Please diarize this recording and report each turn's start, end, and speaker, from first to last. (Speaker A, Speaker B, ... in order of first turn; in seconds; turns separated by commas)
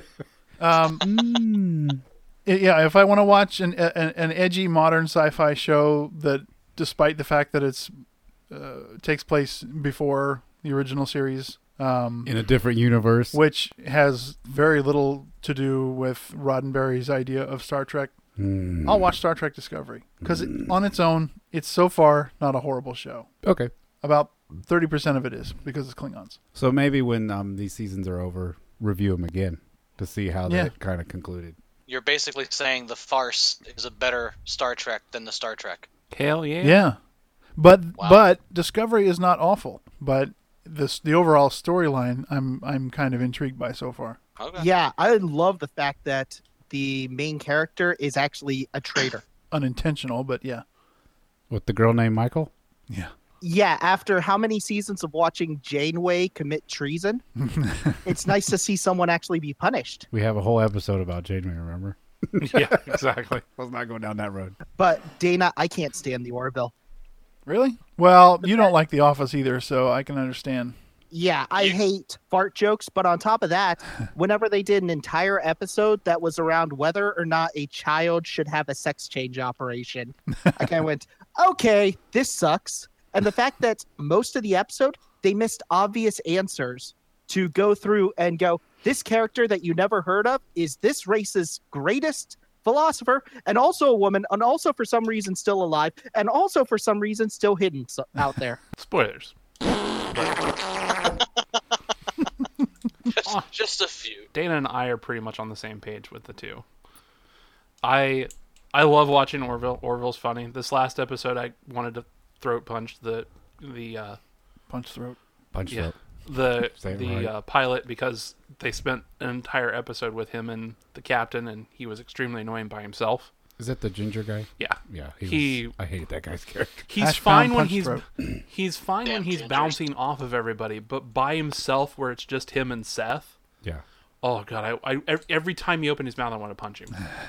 Speaker A: 0.6-1.1, Speaker B: 1.0-2.0, Speaker A: 2.5-8.0, Speaker A: 8.5-12.3, Speaker B: 12.2-13.4, Speaker A: 13.3-18.1, Speaker B: 18.4-19.1, Speaker A: 18.8-23.3, Speaker B: 20.2-20.7, Speaker B: 23.4-23.7, Speaker A: 24.0-26.4, Speaker B: 26.6-31.6, Speaker A: 30.5-30.7, Speaker C: 31.9-35.9, Speaker D: 36.1-36.8, Speaker A: 36.6-37.0, Speaker A: 37.6-44.2, Speaker C: 38.0-38.2, Speaker C: 44.4-44.7, Speaker E: 44.6-49.2, Speaker A: 49.5-50.6, Speaker B: 51.5-52.5, Speaker E: 53.4-57.2, Speaker A: 57.4-58.0, Speaker E: 58.0-60.1, Speaker B: 60.1-64.6, Speaker D: 62.4-63.4, Speaker E: 64.8-66.7, Speaker A: 67.5-70.8, Speaker E: 71.1-98.6, Speaker D: 98.8-99.3, Speaker D: 100.1-100.5, Speaker C: 103.2-104.3, Speaker D: 104.3-106.6, Speaker D: 107.8-114.2, Speaker A: 114.7-115.2, Speaker B: 115.5-115.9, Speaker D: 115.7-123.3, Speaker B: 116.7-117.3, Speaker B: 123.6-126.9, Speaker D: 124.6-125.7, Speaker D: 126.9-133.3, Speaker A: 127.0-128.0, Speaker C: 129.1-129.8, Speaker D: 134.2-137.0